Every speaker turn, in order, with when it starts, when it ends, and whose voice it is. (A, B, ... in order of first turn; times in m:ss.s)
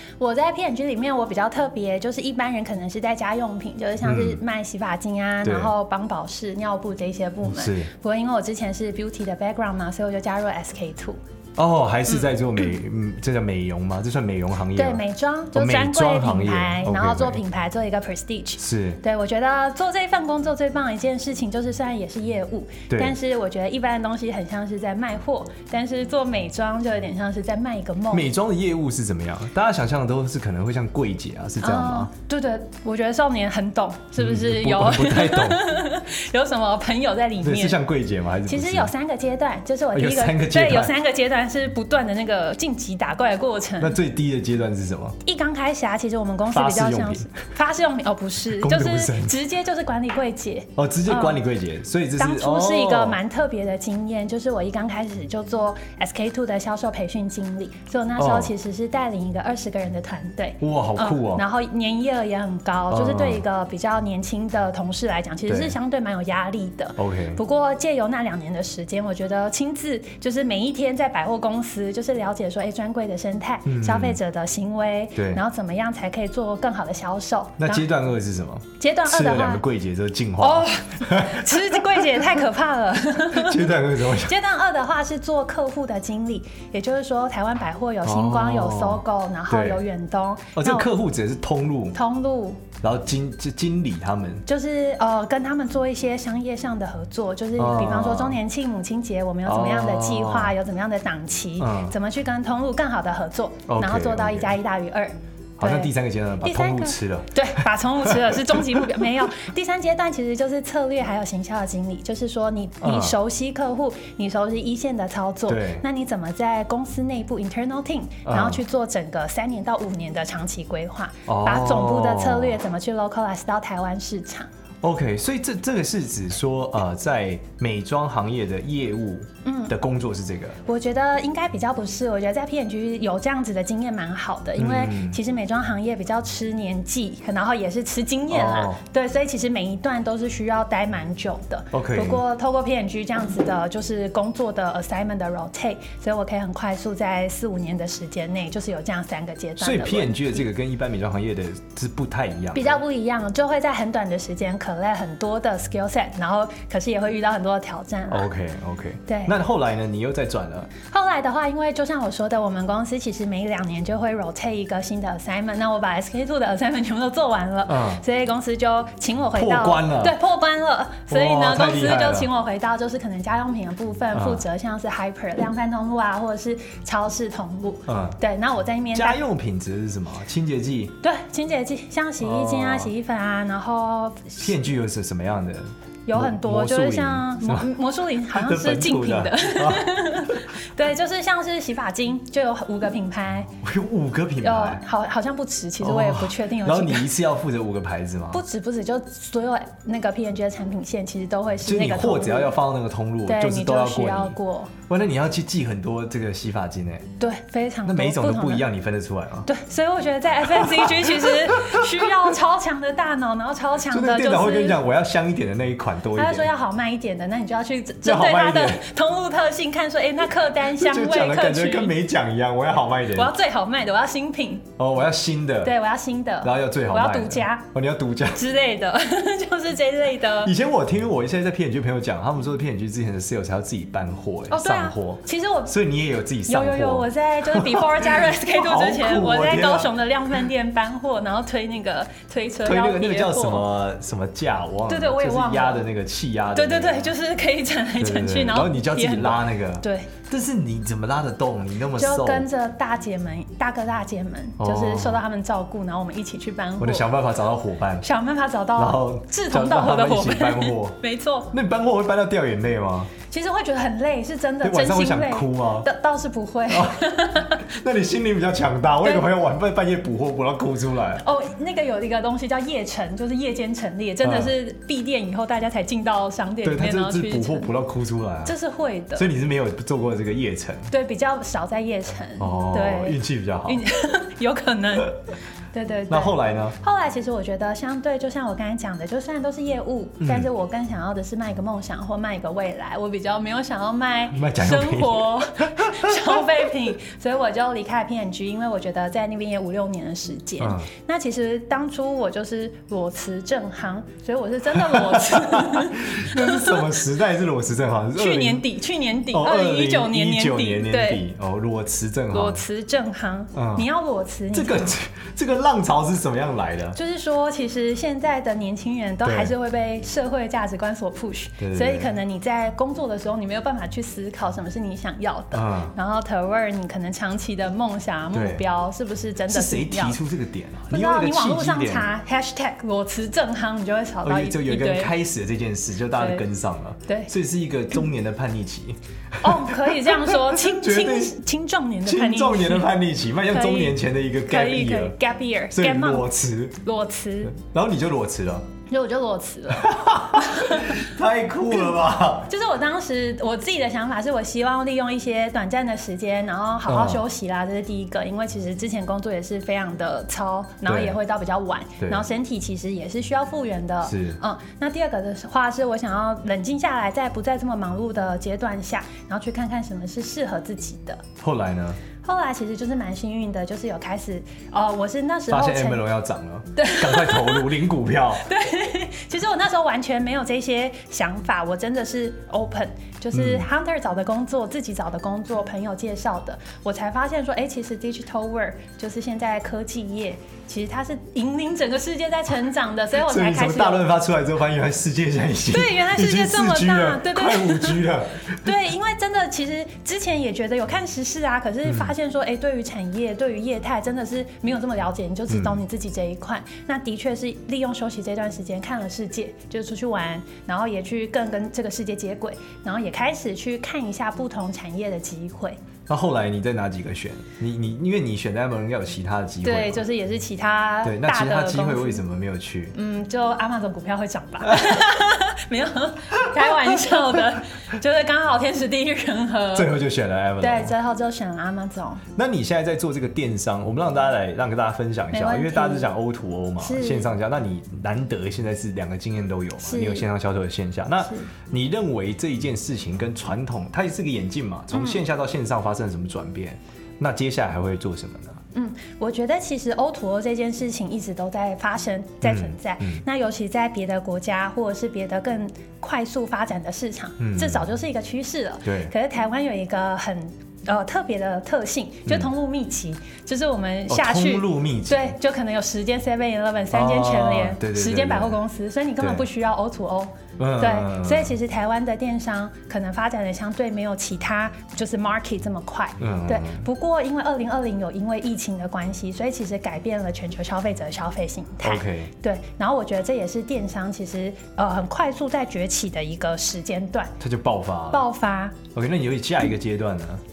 0:00.2-0:11.2 A
0:04.0-0:04.4 B
0:05.4-0:05.7 B
0:07.4-0:07.9 B
0:11.6-0:17.4 B
0:14.8-0:28.3 A
0:18.6-0:19.0 B
0:22.9-0:23.2 B
0:28.1-0:32.1 B
0:31.6-0:37.8 A
0:34.2-0:35.6 B
0:37.4-0:38.9 B
0:38.5-0:44.0 A
0:39.9-0:40.9 B
0:43.8-0:45.2 B
0:45.2-0:51.4 A
0:46.5-0:47.3 B
0:48.5-0:49.4 B
0:50.8-0:53.2 B
0:52.2-1:17.9 A
0:58.2-0:58.5 B
1:00.6-1:01.4 B
1:02.9-1:03.4 B
1:05.5-1:05.8 B
1:07.0-1:07.4 B
1:13.7-1:14.2 B
1:15.2-1:15.4 B
1:17.6-1:22.3 B
1:18.8-1:19.6 A
1:20.4-1:30.9 A
1:23.3-1:24.4 B
1:28.0-1:29.8 B
1:30.6-1:32.0 B
1:31.9-1:32.6 A
1:32.8-1:34.4 B
1:34.5-2:04.5 A
1:37.6-1:38.4 B
1:39.4-1:40.5 B
1:41.6-1:42.0 B
1:43.7-1:44.6 B
1:45.6-1:49.1 B
1:52.8-1:53.2 B
1:55.5-1:55.8 B
1:58.2-1:58.6 B
2:01.3-2:02.6 B
2:04.8-2:10.6 B
2:09.4-2:09.7 A
2:10.6-2:30.5 A
2:14.6-2:15.2 B
2:18.3-2:18.8 B
2:21.7-2:22.2 B
2:29.6-2:32.8 B
2:32.6-2:38.3 A
2:38.1-2:40.7 B
2:39.1-2:39.3 A
2:40.8-2:59.2 A
2:47.7-2:48.0 B
2:49.4-2:50.2 B
2:51.1-2:52.3 B
2:54.1-2:54.4 B
2:57.9-2:58.2 B
2:58.9-3:01.0 B
3:01.0-3:04.5 A
3:02.2-3:02.9 B
3:04.4-3:07.7 B
3:06.1-3:13.5 A
3:08.3-3:10.2 B
3:13.6-3:14.8 B
3:14.4-3:17.1 A
3:15.8-3:18.4 B
3:18.3-3:22.6 A
3:21.6-3:24.4 B
3:23.3-3:24.7 A
3:24.9-3:27.1 B
3:27.2-3:28.6 A
3:27.8-3:29.5 B
3:29.5-3:34.8 A
3:30.4-3:32.1 B
3:33.9-3:36.5 B
3:36.2-3:41.9 A
3:38.0-3:38.8 B
3:40.6-3:43.3 B
3:43.2-3:44.7 A
3:44.8-3:45.7 B
3:45.6-3:47.7 A
3:46.4-3:48.4 B
3:48.3-3:50.5 A
3:50.4-4:00.0 B
3:54.5-3:55.7 A
3:56.5-4:03.7 A
4:02.6-4:07.1 B
4:04.9-4:05.8 A
4:06.6-4:10.1 A
4:08.0-4:12.5 B
4:12.0-4:17.1 A
4:14.6-4:15.2 B
4:16.8-4:18.1 B
4:18.0-4:21.5 A
4:18.8-4:21.0 B
4:21.5-4:23.1 B
4:23.3-4:27.7 A
4:24.6-4:25.9 B
4:26.7-4:31.2 B
4:29.0-4:29.3 A
4:31.2-4:37.7 A
4:34.2-4:34.5 B
4:36.6-4:38.6 B
4:38.4-4:39.3 A
4:39.2-4:40.9 B
4:40.9-4:45.2 A
4:42.4-4:43.8 B
4:45.7-5:06.9 A
4:46.1-4:46.8 B
4:50.2-4:50.5 B
4:54.3-4:56.4 B
5:00.6-5:00.9 B
5:04.7-5:08.7 B
5:08.2-5:11.2 A
5:09.3-5:12.6 B
5:12.3-5:14.9 A
5:13.5-5:13.9 B
5:14.5-5:17.0 B
5:17.0-5:30.2 A
5:19.2-5:19.6 B
5:21.6-5:22.1 B
5:25.5-5:26.0 B
5:28.3-5:28.6 B
5:29.5-5:32.1 B
5:30.9-5:35.1 A
5:34.2-5:41.4 B
5:36.1-5:36.4 A
5:39.4-5:42.9 A
5:42.0-5:45.2 B
5:43.5-5:47.6 A
5:45.7-5:46.8 B
5:47.5-5:48.7 B
5:48.9-5:51.0 A
5:49.7-5:52.5 B
5:52.5-6:11.2 A
5:56.9-5:57.2 B
6:00.8-6:01.2 B
6:04.0-6:04.4 B
6:11.4-6:12.0 B
6:12.2-6:16.0 A
6:15.5-6:18.5 B
6:16.8-6:17.7 A
6:18.4-6:34.1 A
6:23.3-6:23.7 B
6:33.2-6:38.7 B
6:35.7-6:38.1 A
6:38.6-6:55.8 A
6:41.8-6:42.1 B
6:45.5-6:45.8 B
6:56.1-7:00.0 B
6:59.6-7:02.2 A
7:01.0-7:03.0 B
7:03.0-7:09.9 A
7:04.7-7:05.0 B
7:06.6-7:07.0 B
7:09.7-7:10.9 B
7:10.6-7:12.2 A
7:12.4-7:28.6 B
7:15.3-7:16.1 A
7:16.8-7:17.3 A
7:19.8-7:20.3 A
7:24.9-7:25.2 A
7:28.7-8:07.4 A
7:32.4-7:33.2 B
7:37.4-7:37.9 B
7:38.8-7:39.1 B
7:44.1-7:45.4 B
7:46.9-7:48.6 B
7:49.2-7:49.5 B
7:50.6-7:51.6 B
7:56.2-7:56.9 B
8:01.8-8:02.3 B
8:07.4-8:08.2 B
8:08.1-8:08.8 A
8:08.9-8:10.4 B